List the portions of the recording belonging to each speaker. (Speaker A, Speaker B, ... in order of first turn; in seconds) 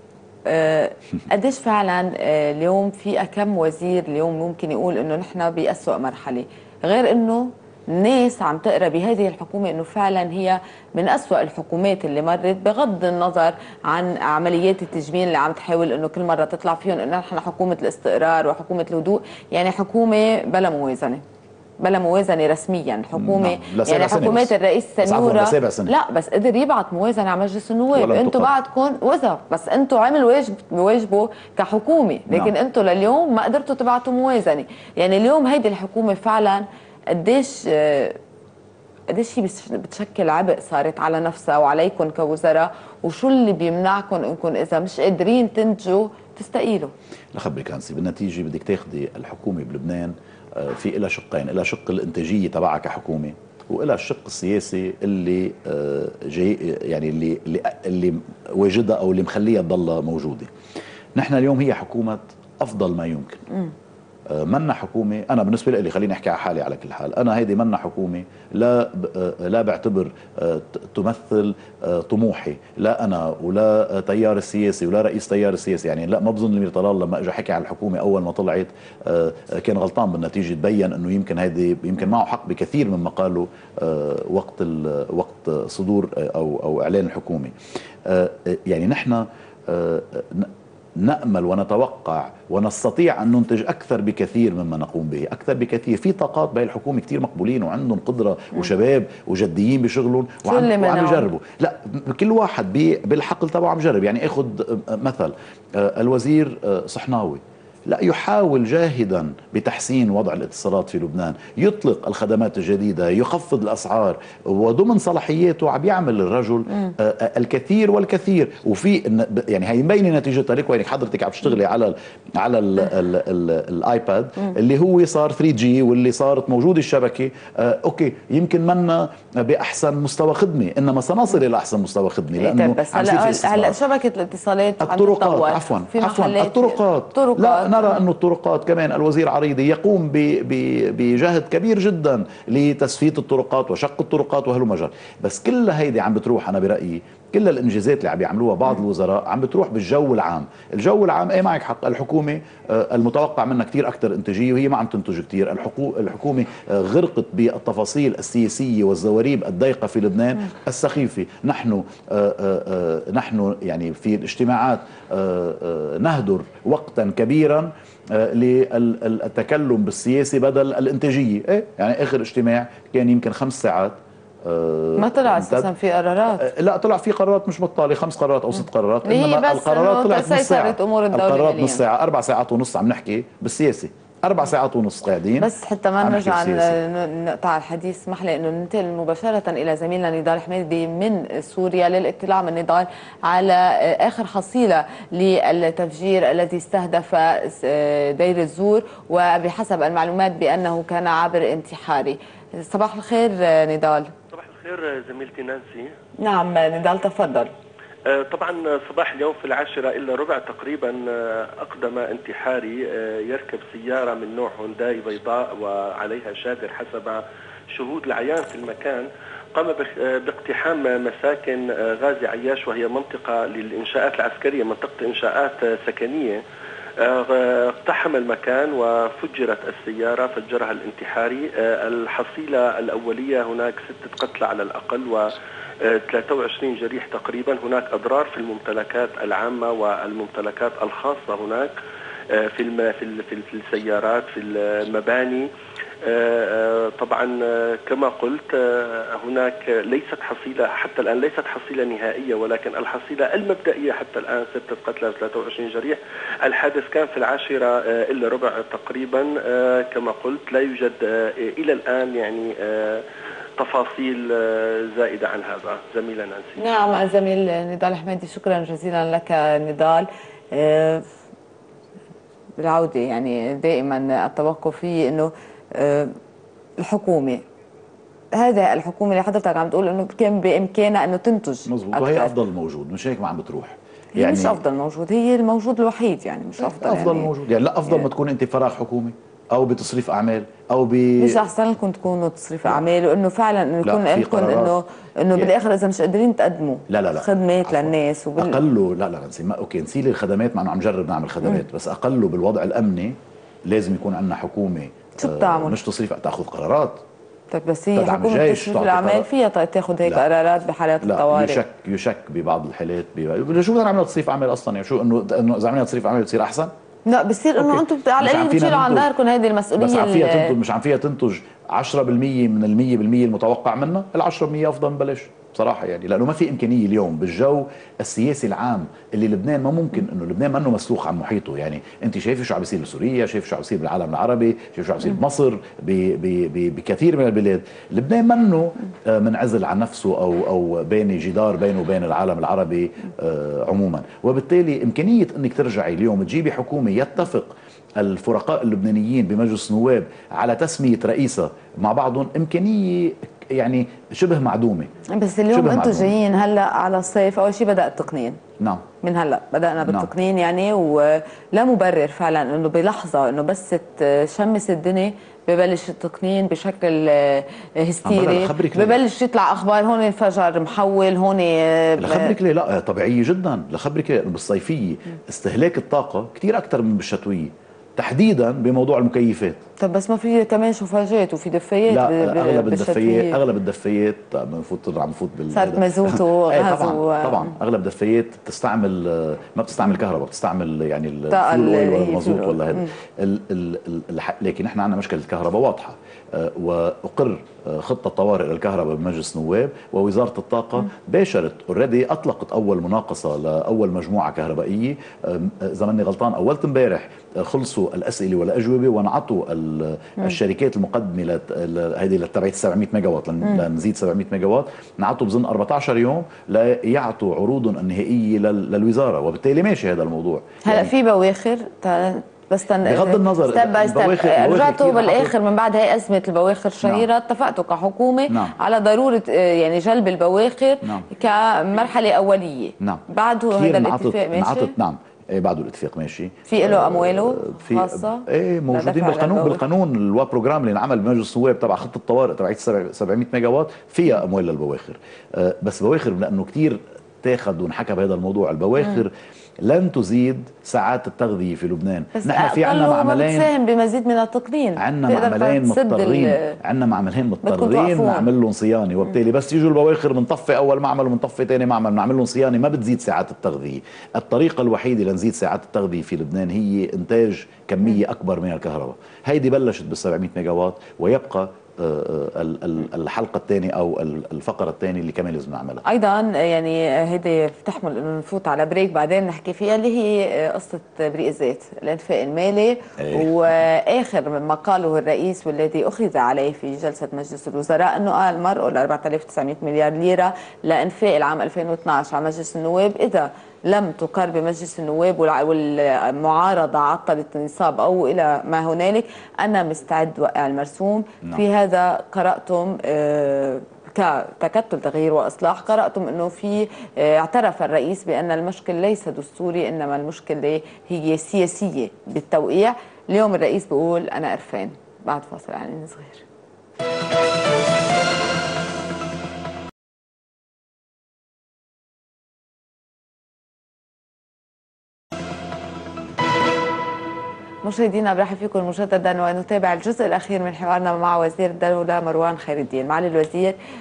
Speaker A: 0.5-21.2, 21.8-38.2, 39.1-46.9, 100.5-101.3, 132.4-138.0, 175.0-176.5, 179.1-181.8, 185.4-204.1, 206.2-207.5, 266.6-271.1, 272.6-276.1, 276.8-277.4, 278.3-282.3, 284.1-287.3, 291.2-298.6, 305.2-305.8, 307.5-311.6, 317.1-320.6, 355.1-358.4, 359.0-372.4, 379.8-383.4, 385.5-387.6, 391.3-392.9, 420.6-434.7, 436.5-439.6, 452.2-456.6, 457.4-458.3, 475.9-516.2, 527.6-533.6
Speaker B: 23.1-25.9, 27.9-28.5, 47.3-60.5, 61.2-63.4, 64.3-87.5, 88.0-133.8, 134.8-175.7, 176.4-186.8, 281.7-284.6, 286.6-291.4, 293.8-294.8, 296.9-307.0, 307.9-309.3, 311.0-316.7, 317.6-319.1, 319.8-354.9, 355.5-356.1, 358.6-358.9, 368.1-369.0, 372.0-379.6, 381.9-420.9, 422.9-425.3, 428.3-428.6, 433.5-453.5, 454.8-475.8, 483.0-483.3
Speaker C: 204.3-205.9, 208.1-217.2, 217.7-226.4, 227.0-235.3, 235.8-241.7, 242.3-245.5, 246.0-263.0, 263.6-266.6